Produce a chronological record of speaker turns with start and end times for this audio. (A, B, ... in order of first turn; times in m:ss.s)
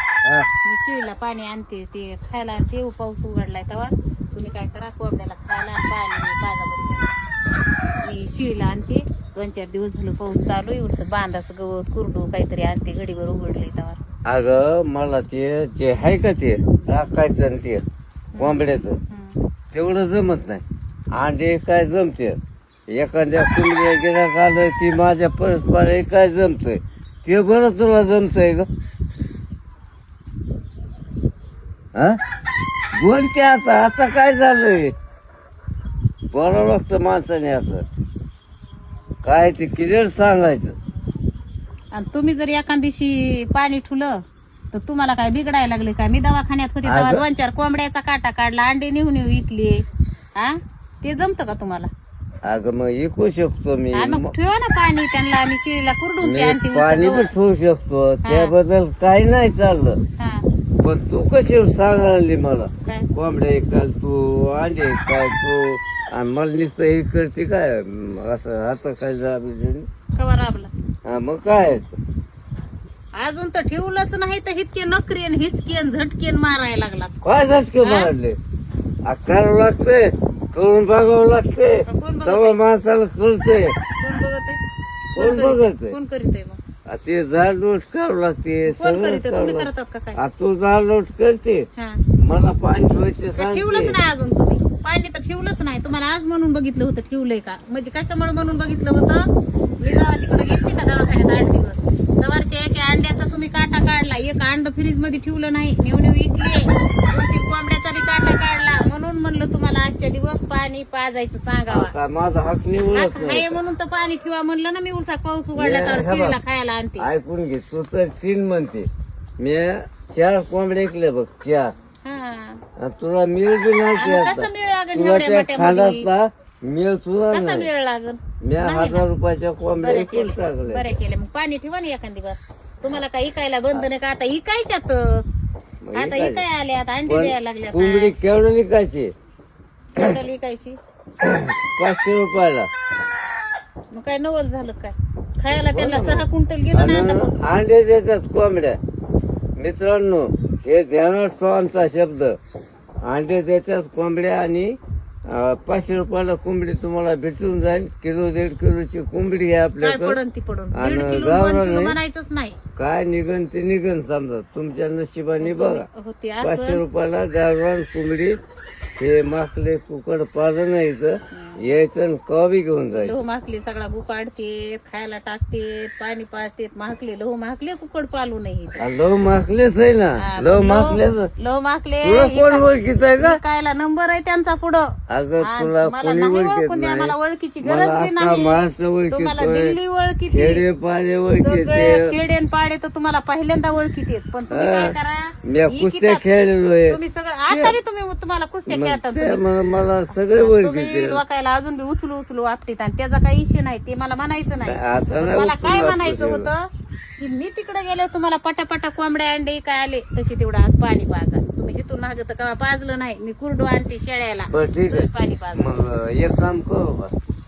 0:00.6-0:07.1 A
0:08.0-0:14.0 A
0:14.3-0:17.8 B
0:18.3-0:19.4 A
0:18.4-0:19.0 B
0:19.7-0:20.6 B
0:21.2-0:22.4 B
0:22.9-0:28.7 B
0:32.9-0:34.9 B
0:36.3-0:37.8 B
0:39.2-0:40.7 B
0:41.9-0:44.2 A
0:44.7-0:49.8 A
0:46.8-0:47.2 B
0:50.4-0:51.9 A
0:52.4-0:54.3 B
0:53.9-0:57.3 A
0:56.2-1:00.0 B
0:58.2-0:58.5 A
1:00.2-1:00.4 A
1:00.8-1:09.9 B
1:10.2-1:10.7 A
1:11.0-1:12.0 B
1:13.2-1:17.1 A
1:17.2-1:18.4 B
1:17.8-1:18.1 A
1:19.0-1:23.8 B
1:21.9-1:22.6 A
1:24.0-1:24.6 A
1:25.1-1:26.6 A
1:25.2-1:26.0 B
1:26.9-1:31.6 B
1:28.7-1:30.2 A
1:32.2-1:34.0 B
1:33.4-1:39.3 A
1:39.8-1:51.9 A
1:51.7-1:53.6 B
1:52.8-1:57.1 A
1:55.5-1:56.4 B
1:57.0-1:58.9 B
1:59.4-2:01.7 B
2:02.0-2:02.6 A
2:02.8-2:07.7 B
2:04.0-2:06.1 A
2:07.3-2:09.1 A
2:08.4-2:11.0 B
2:09.8-2:15.3 A
2:15.8-2:16.4 B
2:15.9-2:18.1 A
2:17.1-2:19.1 B
2:19.9-2:20.8 A
2:21.2-2:22.7 B
2:23.9-2:27.4 A
2:25.5-2:28.8 B
2:29.6-2:32.4 B
2:33.0-2:34.7 B
2:35.3-2:40.2 B
2:39.8-2:42.6 A
2:40.7-2:42.0 B
2:42.8-2:45.9 B
2:45.4-2:46.8 A
2:46.4-2:48.4 B
2:49.0-2:53.2 B
2:51.3-2:51.6 A
2:52.9-2:58.8 A
2:58.8-3:01.3 B
3:00.2-3:02.6 A
3:02.0-3:03.4 B
3:03.2-3:04.9 A
3:05.1-3:09.8 B
3:05.4-3:10.6 A
3:10.3-3:12.1 B
3:11.4-3:16.3 A
3:14.5-3:17.8 B
3:16.9-3:19.4 A
3:18.7-3:21.2 B
3:20.1-3:26.6 A
3:24.7-3:26.5 B
3:27.2-3:35.7 A
3:34.5-3:37.1 B